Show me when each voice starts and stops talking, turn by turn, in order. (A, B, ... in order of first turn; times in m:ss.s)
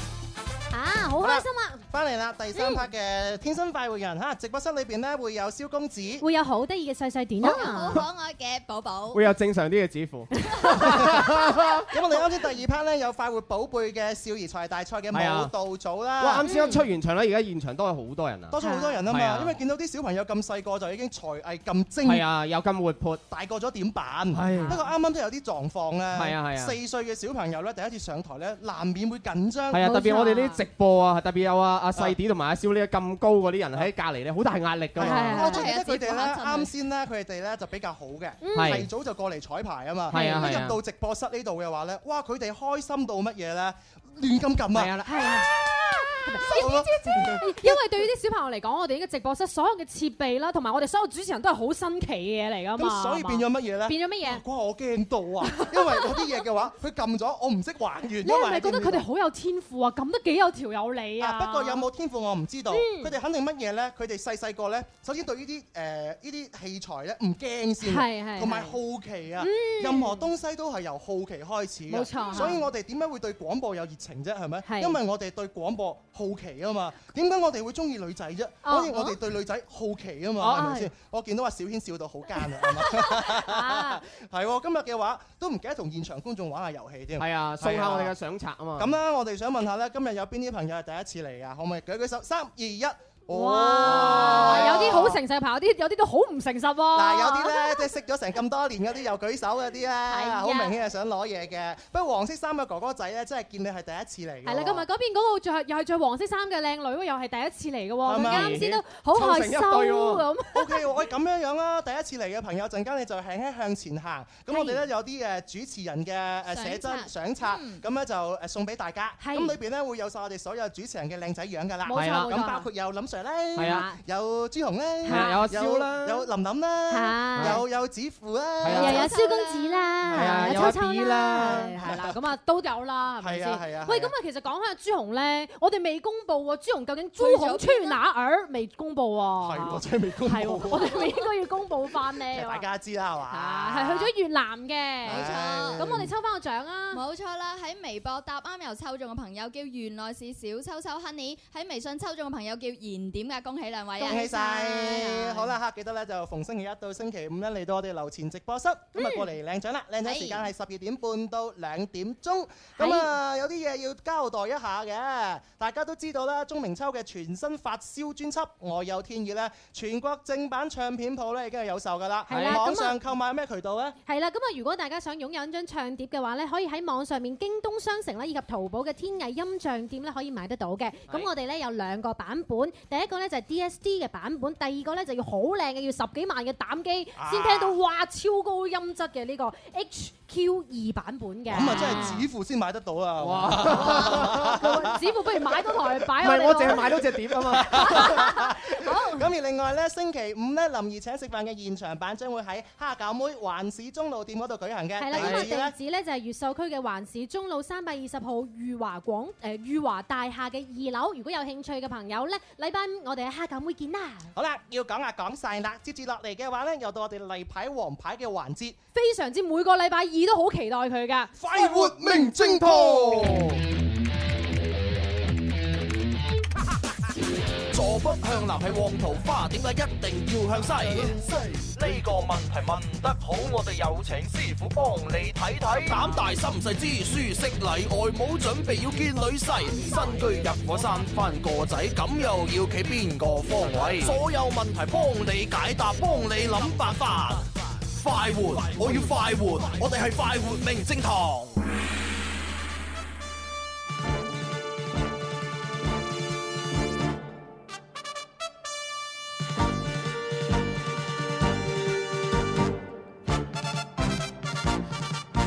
0:00.7-0:01.8 A
0:01.2-0:06.2 B
0:02.5-0:02.8 A
0:06.2-0:08.0 A
0:07.4-0:09.2 C
0:09.1-0:11.8 D
0:10.6-0:11.0 A
0:11.9-0:16.5 B
0:15.1-0:15.5 D
0:16.2-0:18.6 D
0:16.4-0:16.9 A
0:18.5-0:22.3 B
0:18.6-0:19.0 A
0:19.1-0:19.6 D
0:22.0-0:23.2 D
0:23.3-0:29.8 B
0:24.3-0:24.8 D
0:24.5-0:24.8 A
0:26.1-0:26.8 D
0:29.7-0:35.6 D
0:29.8-0:30.6 A
0:35.0-0:44.9 B
0:35.0-0:35.7 A
0:35.4-0:36.7 C
0:38.4-0:38.9 A
0:38.5-0:38.9 D
0:40.1-0:40.7 A
0:40.1-0:40.8 D
0:44.7-0:45.2 D
0:45.0-0:54.4 A
0:46.4-0:47.8 B
0:52.8-0:59.0 B
0:55.6-0:56.2 A
0:58.2-1:01.8 A
1:01.2-1:28.1 B
1:02.7-1:03.1 A
1:07.8-1:08.8 A
1:09.4-1:10.2 A
1:11.9-1:12.6 A
1:14.6-1:15.0 A
1:18.6-1:19.2 A
1:20.4-1:20.9 A
1:22.4-1:24.0 A
1:27.2-1:28.9 D
1:28.8-1:35.2 B
1:33.3-1:37.9 A
1:33.9-1:34.8 D
1:36.9-1:44.9 B
1:40.1-1:40.7 A
1:44.4-1:50.8 A
1:48.0-1:48.6 B
1:48.1-1:50.3 D
1:50.5-2:09.2 B
1:54.5-1:54.8 A
1:56.5-1:57.8 C
1:59.2-1:59.6 A
2:01.9-2:02.7 A
2:01.9-2:02.4 D
2:03.6-2:03.9 D
2:03.6-2:04.0 A
2:05.0-2:06.3 D
2:05.0-2:05.4 A
2:06.9-2:07.6 A
2:07.4-2:07.6 D
2:08.6-2:09.0 D
2:08.7-2:22.6 A
2:09.0-2:09.9 C
2:10.0-2:11.7 D
2:10.0-2:12.2 B
2:13.2-2:14.1 B
2:17.2-2:18.0 C
2:19.4-2:21.0 B
2:22.3-2:24.1 B
2:23.3-2:27.0 A
2:25.0-2:26.1 B
2:25.0-2:25.9 C
2:26.9-2:34.4 C
2:34.0-2:35.5 A
2:34.0-2:54.0 B
2:38.9-2:39.3 A
2:40.0-2:40.5 C
2:42.8-2:43.1 A
2:52.3-2:53.0 A
2:52.3-2:52.6 D
2:54.0-3:12.2 A
3:07.2-3:07.8 B
3:11.5-3:15.0 B
3:13.2-3:14.6 D
3:13.6-3:17.0 A
3:16.2-3:18.2 D
3:17.5-3:25.7 B
3:17.6-3:19.3 A
3:25.0-3:34.3 A
3:25.1-3:25.5 D
3:34.3-3:38.8 B
3:38.9-3:43.0 A
3:41.4-3:43.6 B
3:47.7-4:07.4 E
4:08.0-4:11.6 E